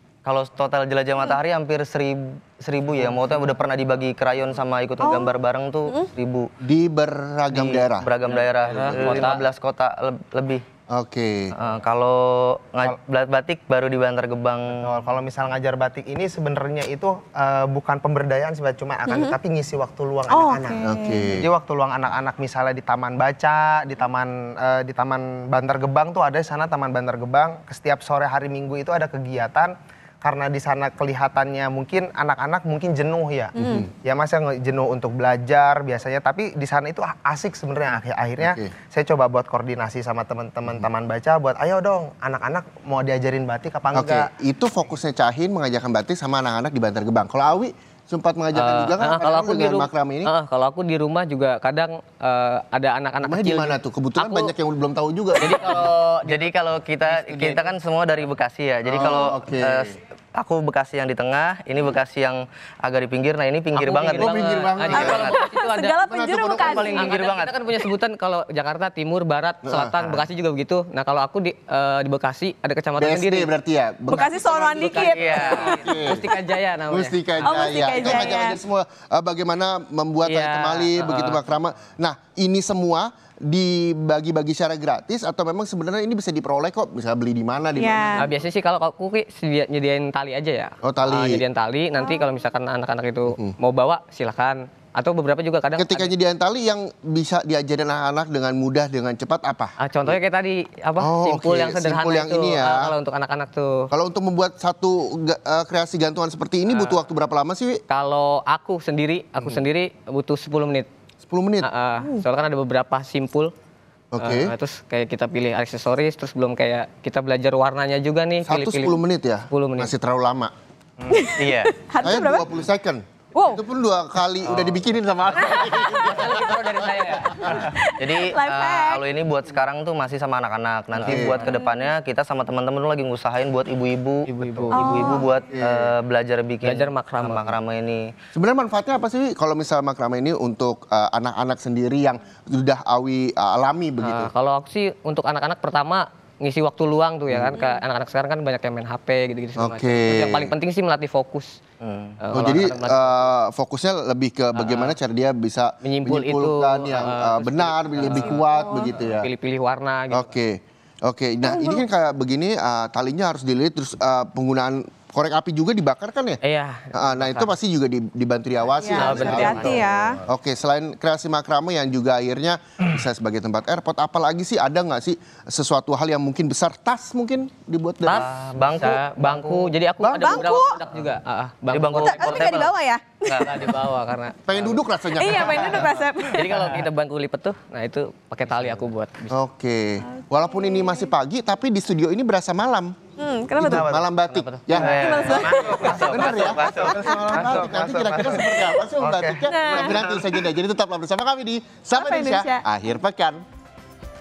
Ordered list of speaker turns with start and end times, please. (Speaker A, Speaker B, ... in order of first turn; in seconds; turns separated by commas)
Speaker A: 0.2-6.5, Speaker B: 5.0-5.3, Speaker C: 6.6-8.1, Speaker A: 7.5-10.6, Speaker D: 8.2-9.4, Speaker C: 8.9-9.3, Speaker C: 10.9-11.5, Speaker A: 11.5-14.9, Speaker E: 14.8-44.3, Speaker B: 19.1-19.4, Speaker B: 20.3-21.3, Speaker C: 20.8-21.5, Speaker B: 33.5-33.9, Speaker C: 33.6-33.9, Speaker C: 38.4-38.7, Speaker C: 43.9-50.3, Speaker D: 48.5-54.5, Speaker C: 53.2-55.9, Speaker D: 55.4-57.7, Speaker A: 56.2-64.4, Speaker C: 58.9-60.0, Speaker D: 63.7-73.5, Speaker C: 64.2-65.3, Speaker A: 64.9-65.4, Speaker B: 64.9-67.1, Speaker C: 66.1-66.9, Speaker A: 66.9-67.6, Speaker C: 69.6-70.2, Speaker C: 73.0-76.2, Speaker B: 74.1-76.0, Speaker D: 74.9-78.1, Speaker A: 75.1-75.8, Speaker C: 76.9-88.3, Speaker B: 77.4-78.6, Speaker D: 80.2-81.4, Speaker B: 87.7-88.3, Speaker D: 88.2-96.1, Speaker C: 90.8-91.4, Speaker C: 93.3-93.5, Speaker C: 95.8-100.2, Speaker D: 99.8-103.9, Speaker C: 101.0-102.9, Speaker C: 103.9-107.8, Speaker D: 106.7-107.0, Speaker D: 107.9-110.9, Speaker C: 111.2-111.7, Speaker D: 111.6-113.5, Speaker C: 114.1-114.5, Speaker D: 114.2-119.9, Speaker C: 118.4-120.5, Speaker B: 121.1-122.5, Speaker A: 121.3-121.7, Speaker C: 122.0-127.6, Speaker B: 123.3-123.6, Speaker D: 124.4-124.8, Speaker D: 125.4-127.6, Speaker B: 125.5-126.0, Speaker B: 127.4-129.0, Speaker A: 128.0-138.1, Speaker D: 130.9-131.4, Speaker C: 131.1-131.4, Speaker B: 131.3-131.9, Speaker D: 134.3-135.2, Speaker B: 134.7-135.3, Speaker C: 135.5-135.9, Speaker D: 136.6-137.5, Speaker C: 138.3-144.3, Speaker D: 144.0-151.6, Speaker C: 147.3-147.6, Speaker C: 149.6-150.5, Speaker A: 151.8-152.2, Speaker D: 152.2-153.3, Speaker C: 152.3-159.3, Speaker D: 154.5-154.9, Speaker D: 155.8-160.3, Speaker B: 158.1-159.0, Speaker C: 160.1-166.4, Speaker B: 161.4-161.8, Speaker D: 166.4-167.5, Speaker C: 166.9-178.2, Speaker B: 168.8-170.2, Speaker D: 168.9-169.8, Speaker E: 169.2-170.1, Speaker D: 178.0-182.7, Speaker A: 178.1-179.7, Speaker B: 180.1-180.8, Speaker A: 181.7-182.7, Speaker B: 182.0-183.5, Speaker A: 183.2-183.8, Speaker D: 183.4-184.8, Speaker C: 184.5-186.0, Speaker B: 185.1-186.7, Speaker E: 185.6-185.8, Speaker D: 186.3-189.4, Speaker C: 189.3-193.0, Speaker B: 190.2-191.1, Speaker B: 193.2-194.0, Speaker C: 193.6-195.4, Speaker D: 194.3-194.7, Speaker A: 194.8-197.0, Speaker E: 194.8-198.5, Speaker B: 194.8-196.3, Speaker C: 196.0-203.4, Speaker B: 197.0-198.8, Speaker E: 199.0-200.1, Speaker B: 199.5-200.1, Speaker B: 201.9-202.6